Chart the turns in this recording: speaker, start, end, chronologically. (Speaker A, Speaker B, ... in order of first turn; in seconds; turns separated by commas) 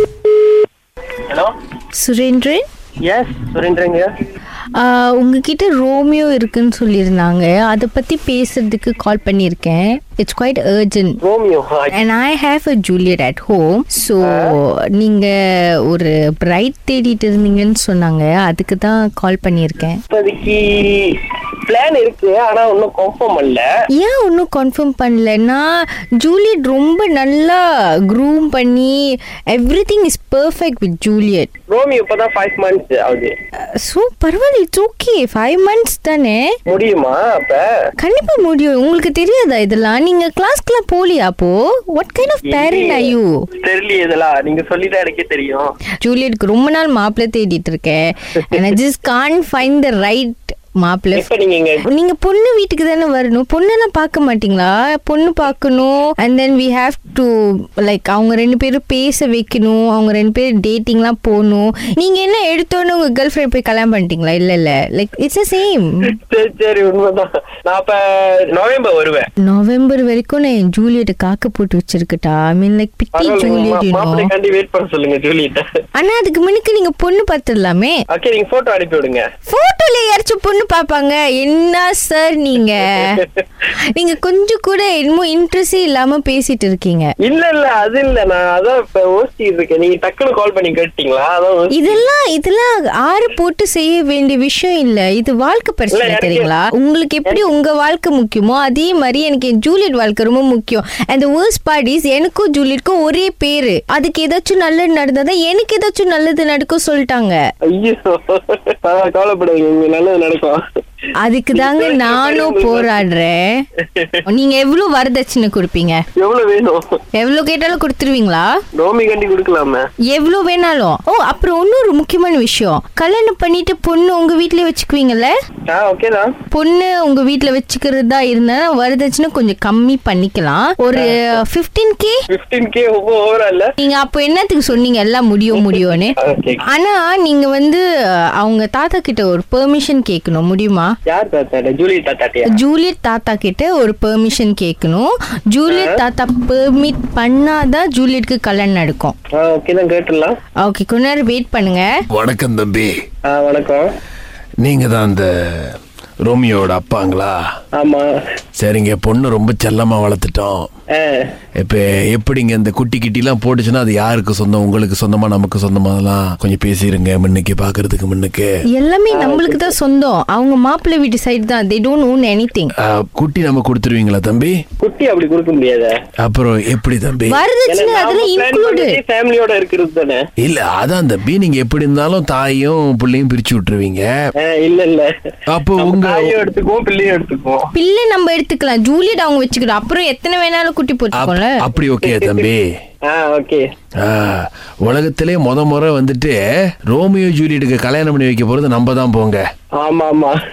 Speaker A: 2.0-2.6, Speaker B: 3.0-4.1, Speaker A: 4.8-11.2, Speaker B: 11.2-11.9, Speaker A: 11.9-15.3, Speaker B: 14.3-14.5, Speaker A: 15.9-20.0, Speaker B: 20.1-23.6, Speaker A: 24.0-29.0, Speaker A: 29.5-31.5, Speaker B: 31.7-33.3, Speaker A: 33.8-36.5, Speaker B: 36.7-37.7, Speaker A: 38.0-43.3, Speaker B: 42.5-45.7, Speaker A: 46.0-51.3, Speaker B: 51.1-51.8, Speaker A: 51.9-66.1, Speaker B: 66.1-69.3, Speaker A: 69.4-74.3, Speaker B: 73.2-75.6, Speaker A: 76.0-78.0, Speaker B: 78.1-79.2, Speaker A: 79.5-83.2, Speaker B: 83.1-83.4, Speaker A: 83.9-87.1, Speaker B: 87.2-92.0, Speaker A: 91.7-107.4, Speaker B: 95.9-96.5, Speaker B: 107.7-110.6, Speaker A: 111.2-113.6, Speaker B: 111.5-113.0, Speaker B: 113.8-114.2, Speaker A: 114.3-116.0, Speaker B: 116.2-116.8, Speaker A: 117.2-118.5, Speaker B: 118.8-119.8, Speaker A: 120.1-125.3, Speaker B: 125.7-126.3, Speaker A: 126.5-132.2, Speaker B: 130.9-131.4, Speaker B: 132.3-133.7, Speaker A: 133.8-137.8, Speaker B: 135.6-136.7, Speaker A: 138.4-140.9, Speaker B: 141.1-142.6, Speaker A: 142.5-149.1, Speaker B: 145.7-146.0, Speaker B: 149.3-150.3, Speaker A: 150.6-151.9, Speaker C: 152.1-152.9, Speaker B: 153.3-153.9, Speaker C: 154.6-155.7, Speaker C: 156.2-157.4, Speaker B: 157.8-158.1, Speaker C: 158.6-160.7, Speaker B: 160.9-161.2, Speaker C: 161.6-168.5, Speaker A: 168.7-172.7, Speaker B: 169.1-169.7, Speaker C: 172.8-174.6, Speaker B: 174.8-175.9, Speaker C: 176.2-177.4, Speaker A: 177.3-179.0, Speaker B: 177.7-180.2, Speaker C: 180.4-184.1, Speaker B: 184.4-185.1, Speaker C: 185.5-186.3, Speaker B: 185.8-187.7, Speaker A: 187.7-191.6, Speaker C: 191.1-192.6, Speaker B: 192.0-192.4, Speaker B: 193.1-193.7, Speaker C: 194.0-196.3, Speaker C: 196.9-199.4, Speaker B: 199.8-200.4